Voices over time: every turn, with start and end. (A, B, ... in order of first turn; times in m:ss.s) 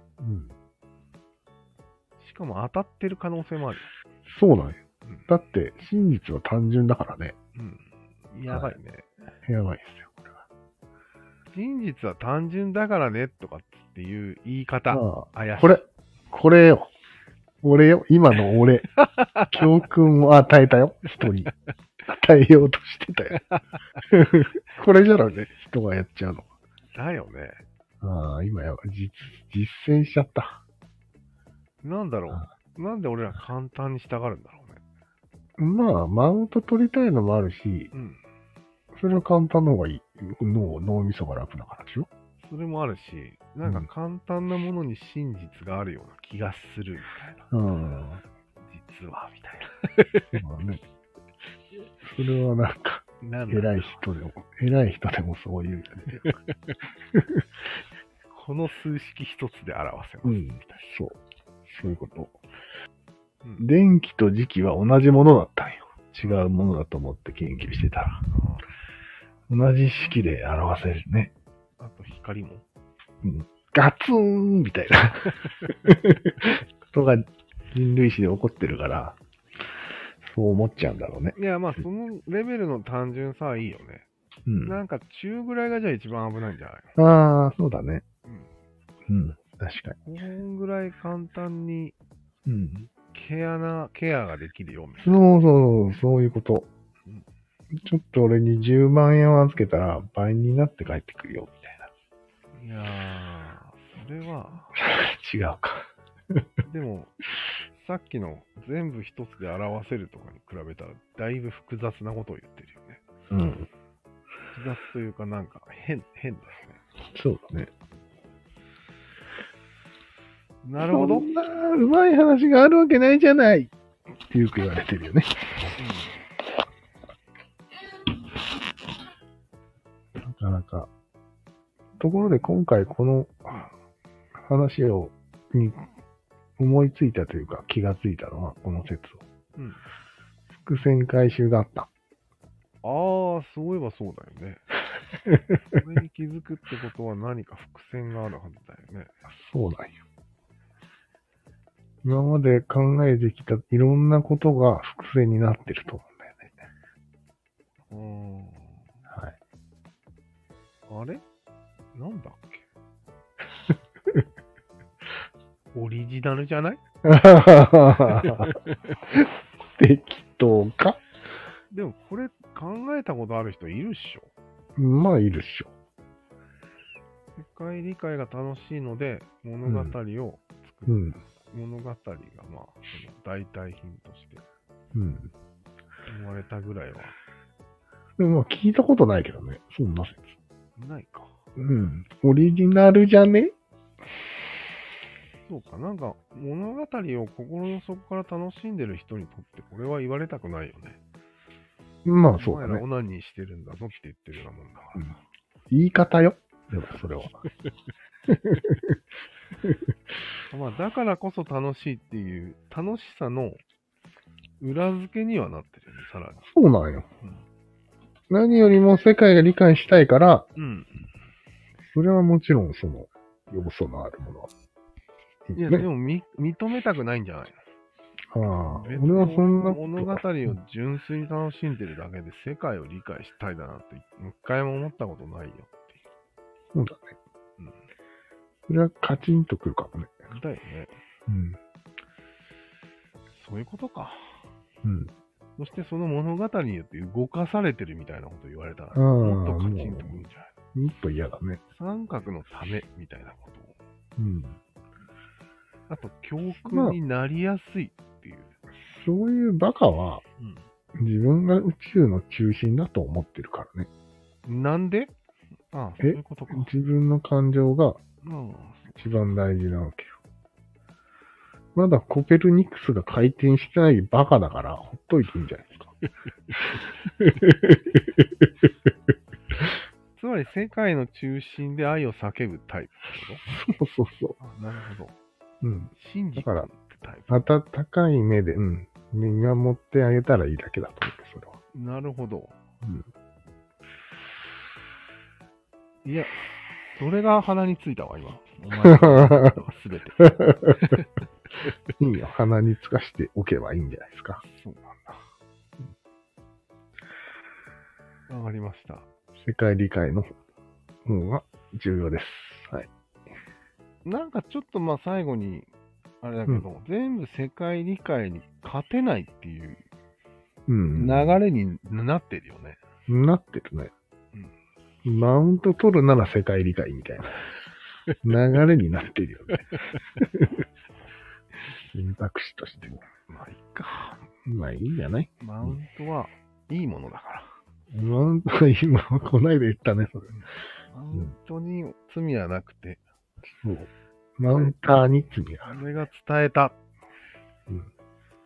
0:00.2-0:00.5 A
0:02.2-0:03.9 B
0:04.2-0:07.4 A
0:07.6-0:09.1 B
0:08.5-0:08.8 A
0:09.4-0:10.4 A
0:11.5-0:15.8 B
0:14.9-0:16.9 A
0:17.6-0:18.9 A
0:19.2-0:19.5 B
0:19.5-0:21.5 A
0:22.1-0:23.4 A
0:24.1-0:26.5 A
0:26.9-0:27.6 B
0:28.0-0:30.6 A
0:31.8-0:34.8 B
0:35.6-0:37.9 A
0:37.9-0:38.2 B
0:39.0-0:42.1 A
0:42.4-0:47.5 B
0:47.5-0:48.2 A
0:48.6-0:50.2 B
0:50.3-0:50.8 A
0:52.0-0:56.3 A
0:53.2-0:54.0 B
0:57.1-0:57.4 A
0:58.3-1:00.8 B
1:00.2-1:02.3 A
1:03.6-1:08.2 A
1:06.2-1:06.5 B
1:08.3-1:08.6 B
1:09.5-1:11.3 A
1:11.8-1:12.6 B
1:13.2-1:19.2 A
1:20.2-1:21.8 A
1:21.4-1:24.0 B
1:24.4-1:24.8 A
1:24.6-1:26.9 B
1:27.0-1:28.0 A
1:29.1-1:30.0 A
1:30.0-1:31.9 B
1:32.4-1:32.9 A
1:33.1-1:35.2 B
1:35.0-1:36.7 A
1:37.7-1:41.9 A
1:42.5-1:44.8 B
1:44.7-1:45.9 A
1:46.6-1:47.2 B
1:47.7-1:53.0 B
1:53.3-1:53.7 A
1:54.5-1:56.8 B
1:57.1-1:57.7 A
2:00.6-2:01.3 B
2:00.9-2:03.7 A
2:04.3-2:05.7 A
2:05.8-2:06.2 B
2:10.2-2:10.9 A
2:12.0-2:13.7 A
2:14.4-2:15.9 A
2:16.6-2:19.2 A
2:19.6-2:19.8 B
2:20.5-2:21.9 A
2:22.8-2:24.6 B
2:25.2-2:25.6 A
2:25.7-2:29.1 B
2:29.3-2:30.0 A
2:32.0-2:36.6 A
2:37.9-2:38.8 B
2:39.1-2:39.3 A
2:40.9-2:41.2 B
2:41.9-2:42.7 B
2:45.7-2:46.8 B
2:47.0-2:48.6 A
2:48.2-2:48.7 B
2:49.8-2:51.0 A
2:51.7-2:54.3 B
2:54.8-2:55.7 A
2:57.4-3:04.4 B
2:59.6-2:59.9 A
3:00.9-3:01.2 A
3:04.9-3:05.3 A
3:06.1-3:07.2 B
3:08.2-3:10.4 A
3:10.8-3:11.3 B
3:11.6-3:13.5 A
3:15.4-3:21.0 B
3:22.0-3:22.8 A
3:22.3-3:25.1 B
3:25.7-3:27.4 A
3:28.3-3:29.0 A
3:30.5-3:33.6 B
3:34.6-3:36.4 B
3:36.4-3:37.0 A
3:38.3-3:40.5 A
3:40.6-3:41.0 B
3:41.9-3:44.5 A
3:45.5-3:45.9 A
3:45.6-3:47.6 B
3:48.3-3:50.2 A
3:48.6-3:56.0 B
3:56.7-3:57.2 A
3:58.7-4:00.1 A
4:00.3-4:00.9 B
4:01.3-4:01.6 A
4:03.3-4:04.4 B
4:04.8-4:05.1 A
4:05.6-4:10.5 B
4:08.9-4:10.2 A
4:10.7-4:11.6 A
4:11.7-4:13.7 B
4:14.2-4:14.6 A
4:15.9-4:18.6 B
4:16.6-4:17.0 A
4:18.7-4:20.2 A
4:20.4-4:20.6 B
4:21.0-4:23.9 A
4:24.4-4:25.1 B
4:25.7-4:26.7 B
4:26.0-4:28.0 A
4:28.2-4:28.9 B
4:28.9-4:30.1 A
4:31.7-4:35.9 A
4:37.2-4:38.5 A
4:40.2-4:43.4 B
4:43.5-4:44.4 A
4:44.4-4:45.1 B
4:45.6-4:46.7 A
4:45.9-4:47.5 B
4:47.3-4:51.6 A
4:51.7-4:52.6 B
4:56.0-4:56.4 B
4:57.0-5:01.1 B
4:58.9-4:59.5 A
5:00.2-5:00.9 A
5:02.0-5:04.4 A
5:04.4-5:05.2 B
5:08.3-5:09.1 B
5:09.4-5:10.3 A
5:11.0-5:12.9 A
5:14.0-5:15.7 B
5:16.2-5:19.8 B
5:20.7-5:21.4 A
5:21.0-5:22.8 B
5:23.1-5:23.9 A
5:25.0-5:27.4 A
5:28.2-5:30.6 A
5:31.9-5:33.0 A
5:33.3-5:34.3 B
5:34.4-5:35.8 A
5:35.4-5:37.6 B
5:37.9-5:40.3 A
5:40.3-5:43.0 B
5:43.6-5:45.8 A
5:45.6-5:46.8 B